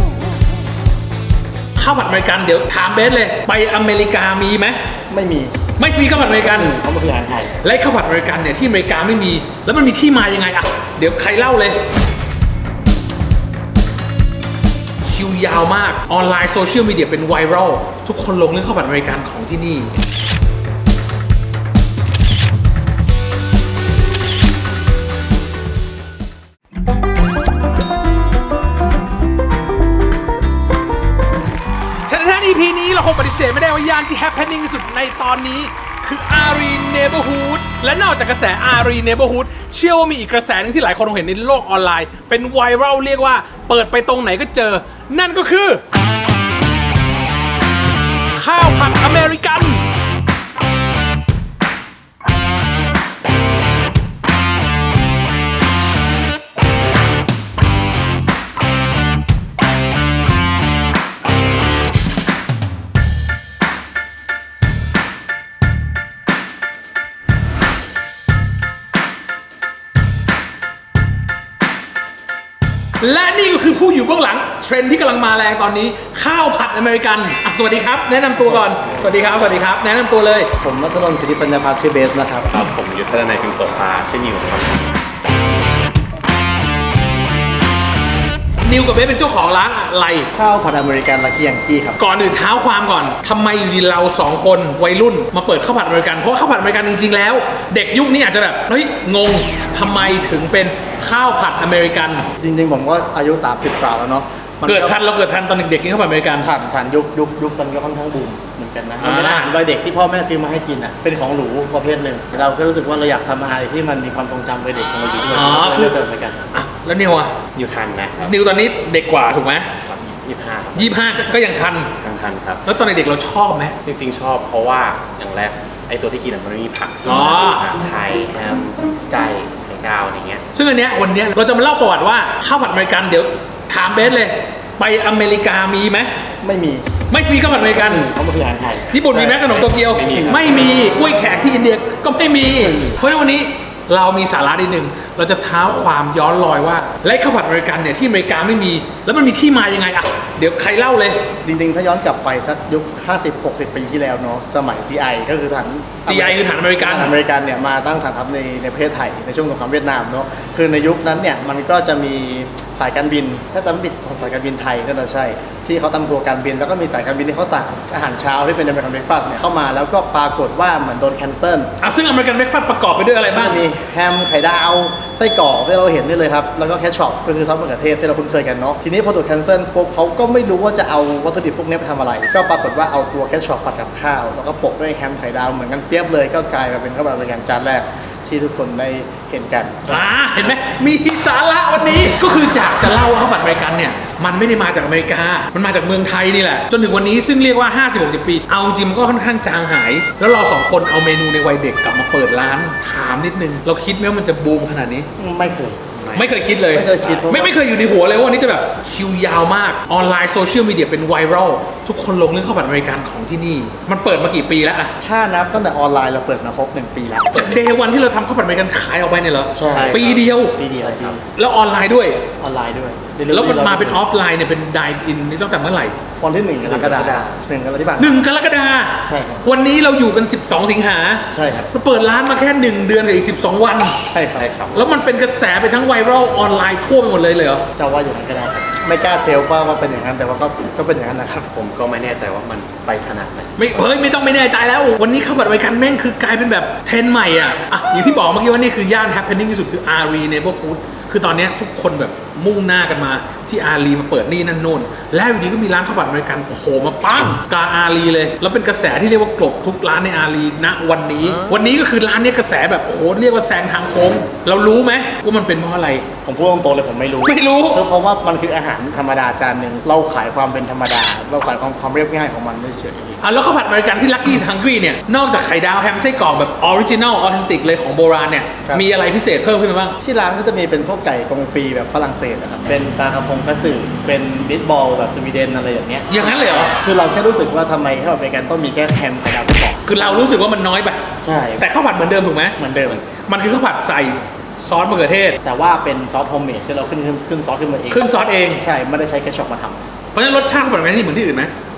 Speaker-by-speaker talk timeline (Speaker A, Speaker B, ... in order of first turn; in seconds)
Speaker A: 1.8-4.8, 5.8-6.7, 7.6-11.8, 15.0-19.9, 32.1-45.8, 48.3-49.8, 73.0-80.5, 88.6-90.3, 92.0-102.2, 104.6-106.5, 109.0-109.5, 115.3-115.9, 116.5-117.4, 118.2-119.7, 120.8-122.0, 122.6-123.8, 127.0-127.7, 130.5-136.1, 137.1-138.1, 138.9-151.3, 156.1-157.1, 171.8-173.6, 189.9-205.1, 206.1-214.9, 217.3-220.6, 221.3-222.2, 223.3-226.0, 228.0-234.0, 234.7-237.6, 243.6-266.1, 267.2-267.8, 273.2-280.0, 286.1-286.8, 289.8-295.4, 297.9-298.6, 300.1-301.5
Speaker B: 5.1-5.5, 6.5-7.5, 78.4-79.2, 80.6-82.7, 90.3-92.0, 102.4-105.0, 106.4-116.4, 136.4-136.9, 137.8-139.5, 140.1-140.4, 142.6-143.0, 151.4-171.7, 173.3-190.4, 205.2-206.0, 206.7-207.6, 215.0-217.6, 219.5-221.2, 222.4-224.0, 226.2-228.2, 229.0-229.4, 231.3-231.7, 234.1-234.5, 237.8-241.5, 266.2-273.2, 280.0-289.9, 291.2-291.7, 292.6-293.0, 295.4-299.8
Speaker C: 82.5-84.8, 117.5-118.3, 119.9-121.2, 122.0-122.6, 123.8-130.4, 139.6-140.5, 206.0-206.3, 219.6-221.2, 226.6-227.3, 234.3-234.9, 241.5-243.6